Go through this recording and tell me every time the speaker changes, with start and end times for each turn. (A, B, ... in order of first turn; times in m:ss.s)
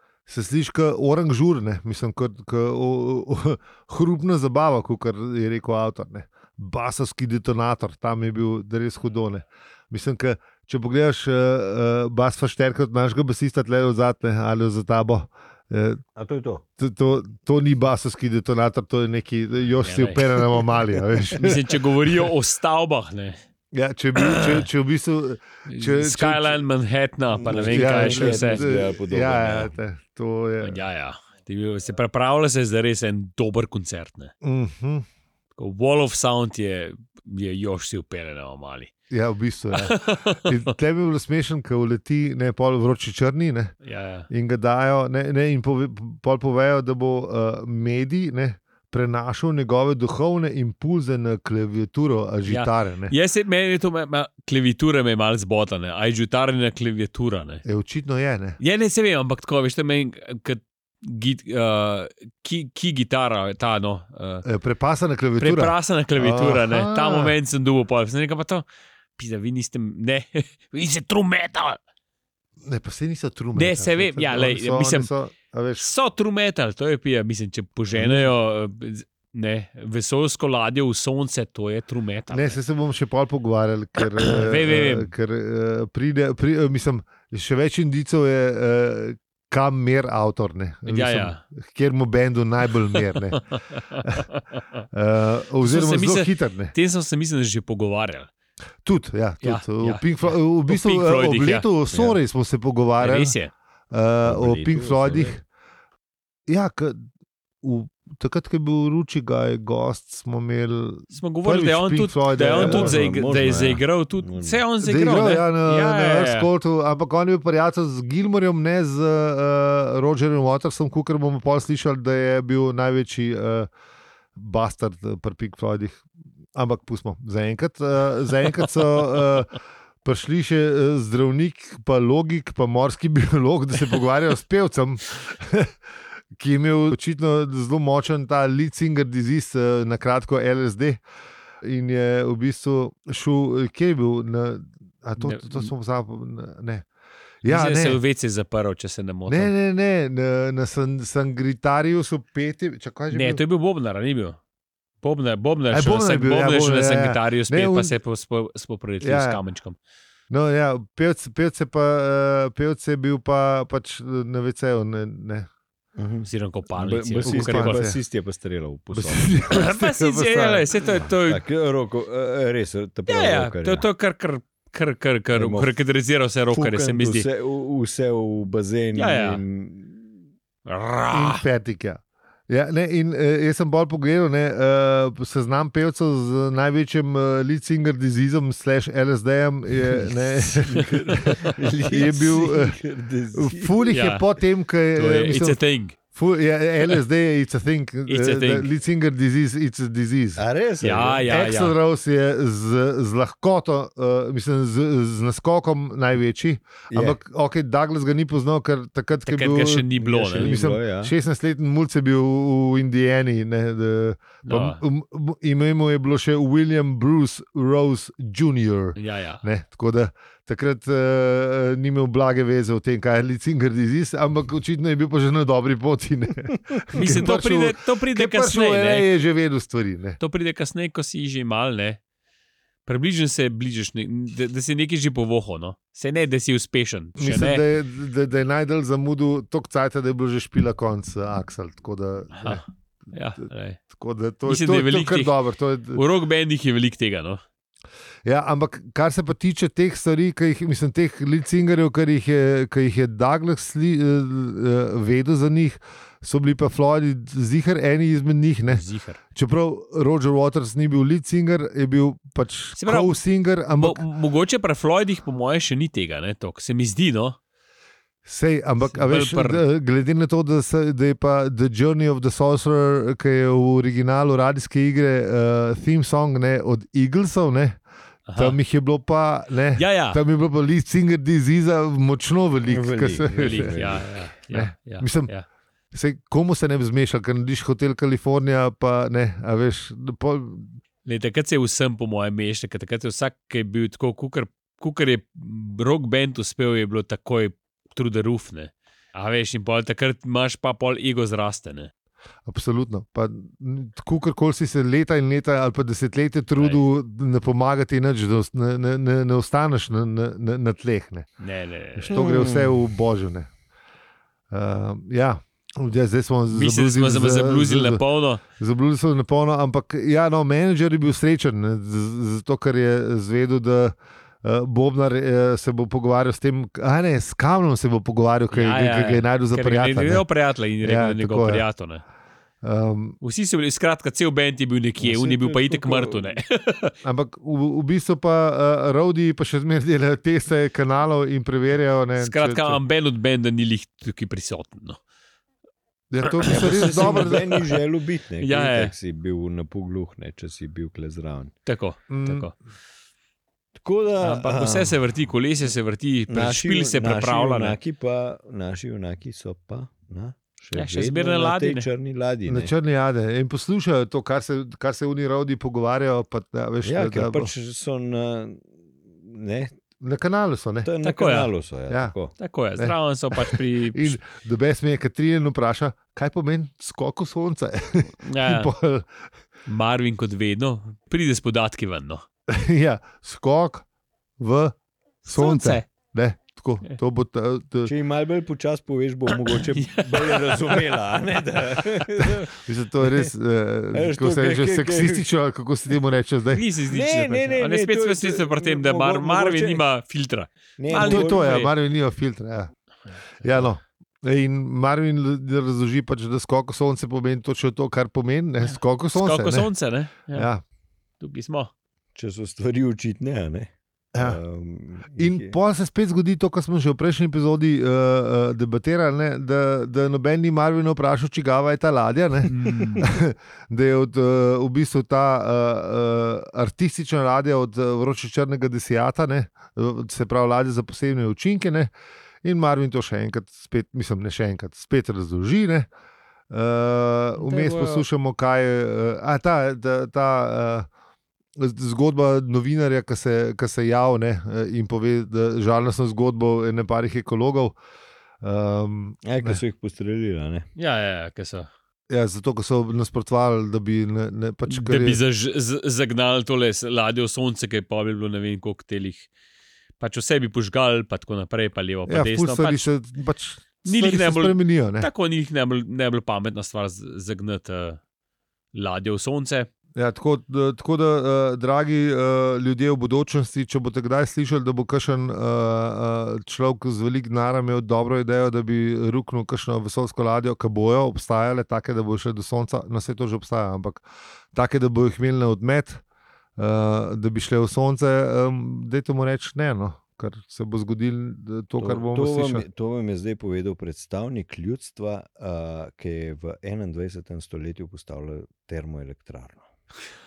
0:00.3-0:16.0 A
0:16.2-0:16.6 B
0:16.8-0:21.6 A
0:19.8-0:20.2 C
0:21.4-0:23.4 C
0:23.7-0:26.6 A
0:24.2-0:24.6 C
0:25.7-0:28.6 C
0:27.3-0:29.7 B
0:27.5-0:30.8 A
0:30.6-0:34.3 C
0:34.4-0:35.0 A
0:35.6-0:38.9 C
0:39.1-0:43.7 A
0:39.7-0:40.6 C
0:43.8-0:44.3 C
0:44.3-0:53.1 A
0:52.4-0:57.6 C
0:57.6-0:58.6 A
0:58.6-1:04.4 C
1:04.4-1:07.3 A
1:05.4-1:08.6 C
1:09.2-1:11.8 C
1:12.6-1:15.9 A
1:13.5-1:15.1 C
1:15.8-1:22.6 C
1:17.9-1:18.3 A
1:22.3-1:34.2 A
1:24.0-1:25.1 C
1:30.9-1:31.4 C
1:33.7-1:34.6 C
1:34.9-1:36.7 A
1:35.6-1:38.3 C
1:38.8-1:43.3 A
1:39.4-1:41.7 C
1:41.9-1:42.2 B
1:43.0-1:43.5 C
1:43.9-1:45.4 A
1:44.2-1:45.4 B
1:46.5-1:47.0 A
1:47.6-1:53.0 A
1:51.1-1:56.5 C
1:52.4-1:54.6 B
1:54.8-2:03.7 A
2:04.3-2:15.8 A
2:16.3-2:21.0 A
2:21.6-2:26.8 A
2:25.2-2:25.7 C
2:27.4-2:28.0 A
2:27.4-2:29.5 C
2:29.3-2:33.4 A
2:33.1-2:34.4 C
2:35.0-2:39.8 C
2:35.7-2:37.9 A
2:39.0-2:39.4 A
2:40.3-2:45.5 A
2:46.0-2:49.3 B
2:46.3-2:47.8 C
2:47.2-2:48.0 A
2:48.9-2:50.7 A
2:49.5-2:51.4 C
2:50.9-2:53.8 B
2:53.1-2:57.3 C
2:55.4-2:55.7 B
2:56.5-3:00.2 B
2:58.9-2:59.4 C
3:00.6-3:01.4 C
3:01.1-3:12.8 A
3:09.9-3:13.8 B
3:11.1-3:11.5 C
3:13.3-3:15.6 A
3:13.8-3:14.2 C
3:14.9-3:16.0 C
3:16.1-3:20.4 A
3:18.1-3:18.7 C
3:20.4-3:21.2 B
3:20.8-3:21.7 C
3:21.2-3:50.2 A
3:26.9-3:27.2 B
3:29.2-3:30.5 C
3:30.0-3:31.1 B
3:34.4-3:34.8 C
3:39.0-3:39.4 C
3:46.9-3:49.1 C
3:50.2-3:52.0 C
3:52.8-3:57.6 C
3:57.2-4:02.6 A
4:02.3-4:03.8 C
4:03.9-4:06.0 A
4:04.4-4:05.3 C
4:05.9-4:07.4 C
4:08.2-4:18.8 A
4:18.7-4:19.2 C
4:19.3-4:24.0 A
4:22.8-4:23.1 C
4:23.8-4:27.4 C
4:28.2-4:37.8 A
4:28.9-4:29.6 C
4:38.3-4:38.6 C
4:38.4-4:44.0 A
4:39.8-4:40.2 C
4:42.6-4:44.1 B
4:43.4-4:45.4 C
4:44.5-4:45.3 A
4:45.9-4:50.8 A
4:51.0-5:01.9 C
5:02.4-5:11.3 A
5:11.4-5:12.2 C
5:12.0-5:13.5 A
5:12.1-5:12.8 B
5:14.5-5:30.2 A
5:16.5-5:18.4 C
5:28.5-5:32.0 C
5:30.8-5:31.6 A
5:32.6-5:33.2 A
5:33.2-5:36.9 C
5:35.0-5:36.4 B
5:37.0-5:42.8 A
5:42.2-5:45.0 C
5:46.1-5:47.6 A
5:46.2-5:47.4 C
5:46.4-5:51.5 B
5:48.4-5:48.9 C
5:51.6-5:52.5 C
5:52.1-5:52.5 A
5:53.8-5:55.0 B
5:54.2-5:57.8 C
5:56.3-6:02.7 B
6:00.7-6:01.9 C
6:02.4-6:07.5 A
6:06.8-6:09.7 B
6:10.0-6:10.9 A
6:10.8-6:12.3 B
6:11.0-6:11.5 C
6:12.4-6:14.2 C
6:12.8-6:19.1 A
6:18.2-6:18.7 C
6:19.6-6:22.2 C
6:22.5-6:23.8 A
6:24.4-6:24.7 A
6:25.2-6:25.9 C
6:25.2-6:27.9 A
6:27.8-6:33.3 B
6:29.5-6:30.6 C
6:32.2-6:36.6 A
6:33.9-6:35.2 B
6:36.5-6:41.7 C
6:36.9-6:39.8 B
6:40.8-6:41.6 B
6:40.9-6:42.7 A
6:43.4-6:49.7 A
6:48.6-6:50.5 C
6:50.3-6:50.6 A
6:51.2-6:51.7 C
6:52.1-6:55.6 B
6:54.1-6:54.4 A
6:55.2-7:11.9 A
7:02.5-7:03.1 C
7:12.4-7:15.9 A
7:16.5-7:20.9 A
7:17.4-7:18.0 C
7:21.6-7:27.8 A
7:28.4-7:29.6 A
7:29.2-7:30.7 B
7:30.8-7:31.7 C
7:32.1-7:35.2 A
7:34.6-7:39.3 C
7:40.0-7:42.9 C
7:42.1-7:45.1 A
7:43.8-7:48.0 C
7:48.7-7:49.7 C
7:50.0-8:06.0 A
8:06.6-8:12.6 A
8:11.8-8:19.7 B